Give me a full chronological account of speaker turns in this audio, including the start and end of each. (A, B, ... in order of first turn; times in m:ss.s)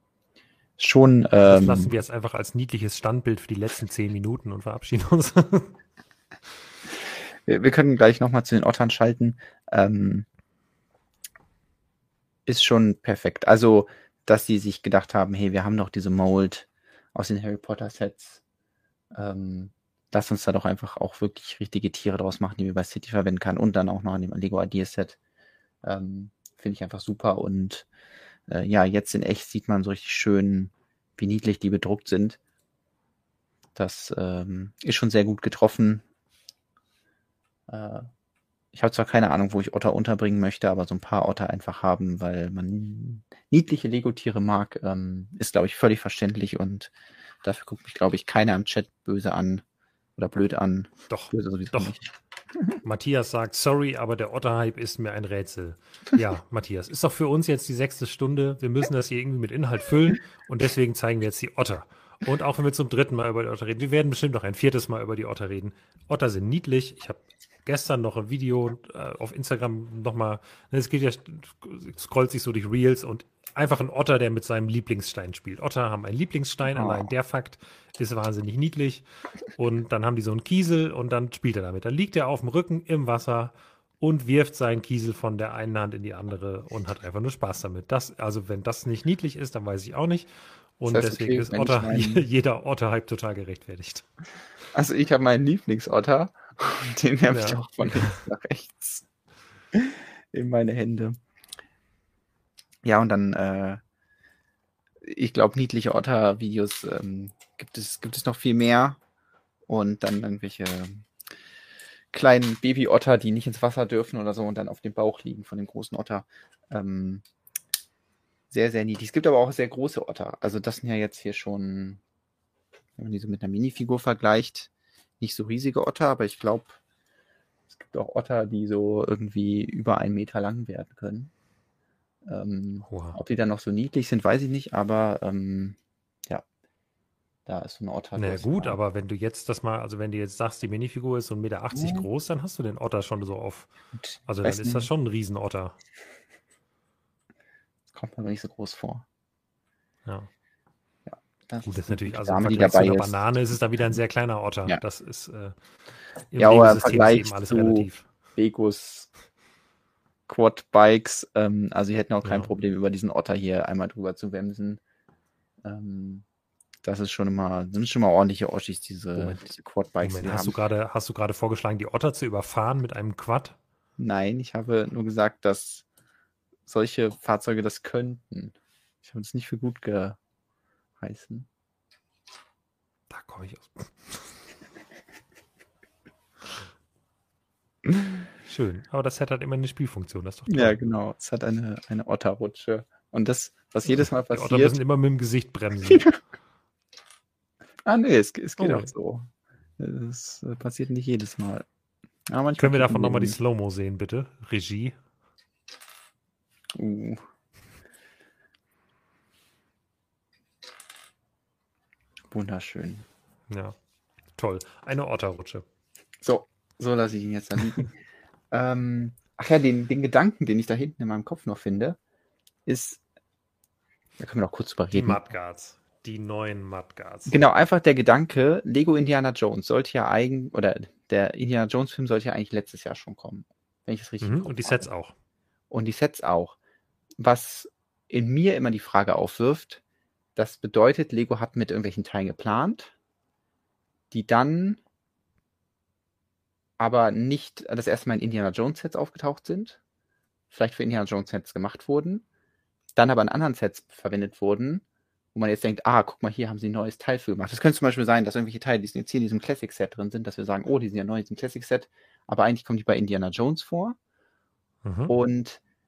0:00.8-0:01.9 A
0:01.4-0:05.7 B
0:07.0-0:10.3 A
0:12.4-0:18.4 A
0:19.1-0:25.2 A
0:25.8-0:27.9 A
0:28.5-0:32.4 A
0:33.7-0:36.0 A
0:37.7-0:38.1 A
0:38.7-0:46.9 A
0:47.4-0:49.6 A
0:50.2-0:52.1 A
0:51.1-0:51.9 B
0:52.8-1:34.0 B
1:16.7-1:17.1 A
1:30.9-1:32.2 A
1:34.7-1:39.0 A
1:37.3-1:38.2 B
1:39.7-1:41.2 A
1:42.8-1:43.8 A
1:45.0-1:49.0 A
1:49.7-1:51.1 A
1:52.1-1:57.2 A
1:58.5-2:02.0 A
2:03.0-2:06.8 A
2:07.7-2:11.3 A
2:12.2-2:16.4 A
2:12.9-2:13.2 B
2:17.4-2:18.8 A
2:18.1-2:23.7 B
2:21.7-2:22.1 A
2:24.0-2:24.9 A
2:24.3-2:25.8 B
2:27.9-2:29.0 A
2:31.1-2:33.2 A
2:31.6-2:35.5 B
2:36.3-2:38.1 B
2:36.4-2:39.1 A
2:40.3-2:44.8 A
2:42.2-2:42.5 B
2:45.6-2:46.2 A
2:46.8-2:50.6 A
2:49.2-2:49.4 B
2:50.0-2:53.6 B
2:54.0-2:55.8 A
2:56.7-3:00.2 A
3:01.0-3:01.5 A
3:03.1-3:04.4 B
3:08.4-3:10.8 B
3:10.5-3:14.8 A
3:14.0-3:16.1 B
3:17.8-3:21.6 A
3:18.6-3:18.9 B
3:22.3-3:23.4 A
3:22.6-3:25.0 B
3:26.7-3:27.2 A
3:32.3-3:33.0 A
3:33.5-3:33.8 B
3:34.4-3:35.6 B
3:36.2-3:38.0 A
3:38.5-3:42.0 A
3:42.6-3:43.0 A
3:44.2-3:45.2 A
3:44.9-3:47.4 B
3:47.3-3:54.9 A
3:54.2-3:55.1 B
3:55.7-3:56.6 A
3:57.2-3:59.8 A
4:00.4-4:02.9 A
4:04.1-4:04.8 A
4:06.8-4:09.8 A
4:10.5-4:12.2 A
4:13.0-4:24.0 A
4:24.8-4:25.1 B
4:25.1-4:25.6 A